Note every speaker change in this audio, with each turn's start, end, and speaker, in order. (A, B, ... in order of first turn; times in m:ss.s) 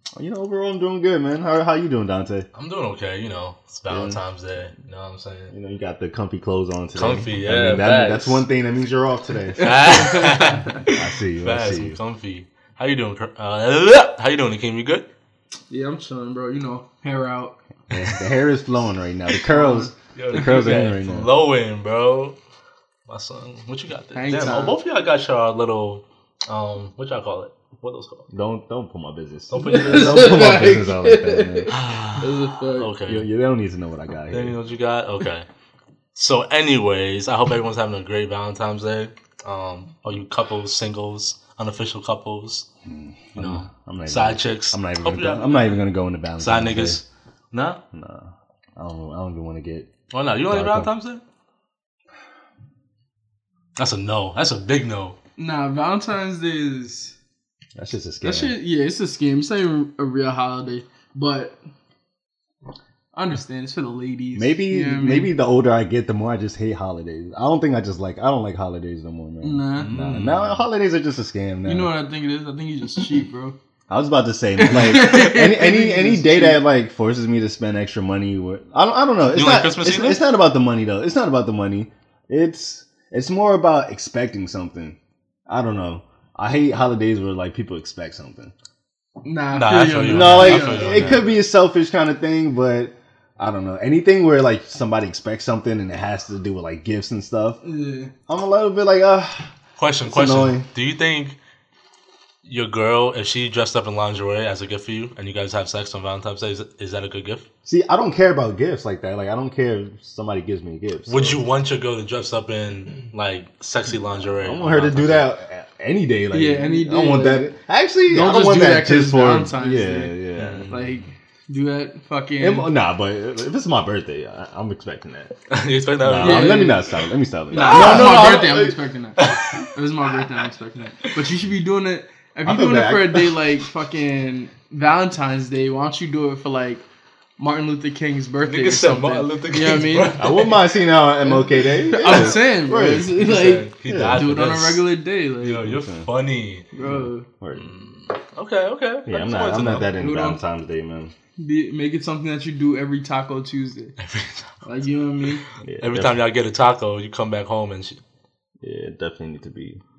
0:00.2-0:02.5 A
0:02.5-0:05.5 B
0:03.9-0:04.2 A
0:05.5-0:10.2 A
0:06.9-0:08.4 B
0:09.6-0:15.1 B
0:10.0-0:10.3 C
0:10.8-0:12.0 A
0:15.7-0:17.6 C
0:17.9-0:21.3 A
0:19.5-0:19.9 C
0:20.1-0:22.4 B
0:23.1-0:28.3 B
0:24.1-0:24.8 C
0:28.3-0:31.7 A
0:29.5-0:30.7 B
0:29.6-0:33.0 C
0:31.7-0:33.2 B
0:33.0-0:34.6 A
0:34.3-0:35.5 B
0:36.1-0:42.7 B
0:42.8-0:47.0 A
0:43.3-0:47.8 B
0:47.9-0:49.9 A
0:50.1-0:51.2 B
0:50.5-0:50.9 A
0:53.8-0:55.2 B
0:55.4-0:57.2 C
0:57.8-0:58.6 A
0:58.2-1:01.6 C
1:03.1-1:05.3 C
1:04.3-1:11.9 A
1:09.4-1:10.0 C
1:09.7-1:10.6 B
1:11.6-1:13.6 C
1:13.9-1:28.5 A
1:14.6-1:16.6 C
1:19.2-1:20.2 B
1:29.2-1:31.3 C
1:29.5-1:31.3 B
1:30.1-1:37.6 A
1:37.6-1:38.1 C
1:38.3-1:39.5 A
1:39.8-1:41.4 B
1:40.0-1:40.7 A
1:42.4-1:47.5 B
1:47.6-1:51.4 A
1:51.1-1:55.3 B
1:54.1-2:00.9 A
1:56.3-1:57.5 C
1:58.0-2:00.2 C
2:00.4-2:00.9 B
2:00.7-2:02.7 C
2:02.4-2:05.4 A
2:05.5-2:08.5 B
2:06.0-2:08.8 A
2:06.1-2:06.9 C
2:07.5-2:16.8 C
2:09.2-2:09.6 B
2:12.4-2:13.3 A
2:17.4-2:20.2 C
2:18.4-2:20.6 B
2:20.2-2:23.3 A
2:21.3-2:25.7 C
2:22.0-2:22.4 B
2:23.2-2:26.7 B
2:23.9-2:24.3 A
2:25.7-2:26.1 A
2:26.7-2:27.3 C
2:26.8-2:27.7 A
2:27.5-2:29.9 B
2:29.0-2:31.1 A
2:30.0-2:30.4 C
2:31.4-2:34.0 C
2:34.0-2:34.8 B
2:34.6-2:35.4 C
2:35.6-2:36.2 A
2:35.8-2:38.0 B
2:38.6-2:39.8 A